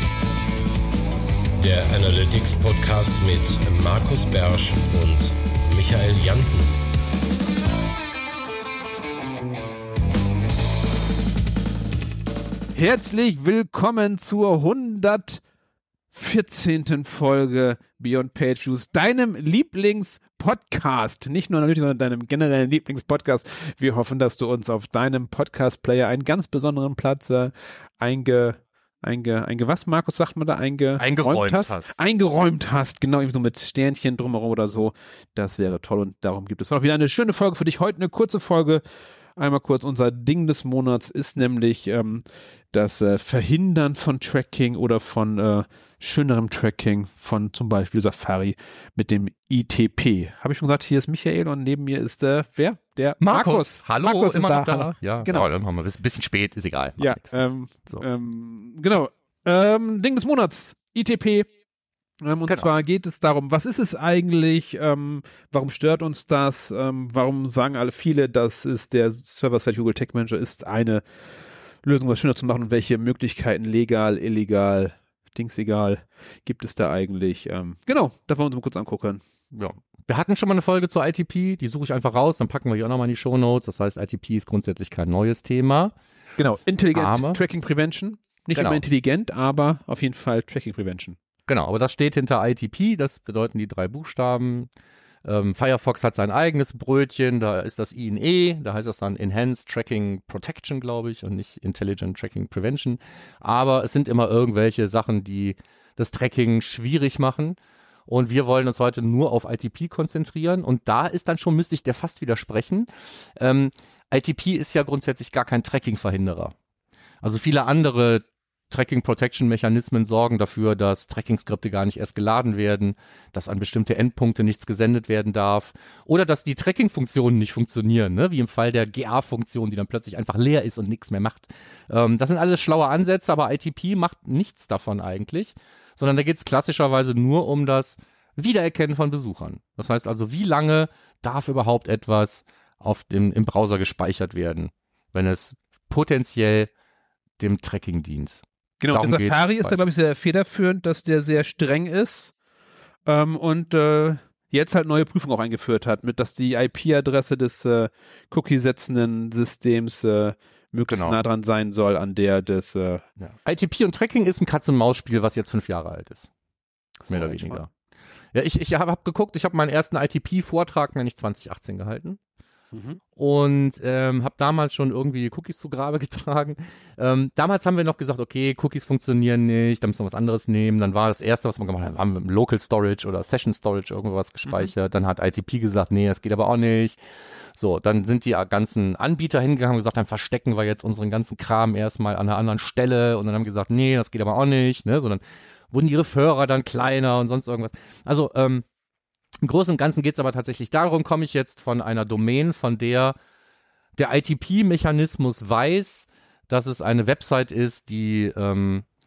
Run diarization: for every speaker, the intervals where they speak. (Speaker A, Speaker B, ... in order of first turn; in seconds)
Speaker A: 1.6-6.8
Speaker B: 12.7-15.4, 16.1-38.8, 39.4-55.5, 57.0-61.5, 62.2-71.0, 71.8-79.2, 86.4-91.2, 148.8-152.3, 153.1-163.0, 167.1-167.6, 172.7-173.0, 184.5-184.7
Speaker C: 31.0-32.0, 53.2-58.1, 79.5-86.0, 86.9-87.4, 88.5-88.8, 91.5-94.7, 95.2-116.5, 117.2-146.7, 147.4-149.8, 160.9-161.2, 163.2-166.3, 167.1-167.7, 168.3-172.2, 173.2-187.0, 187.6-198.7, 199.4-203.2, 204.0-208.8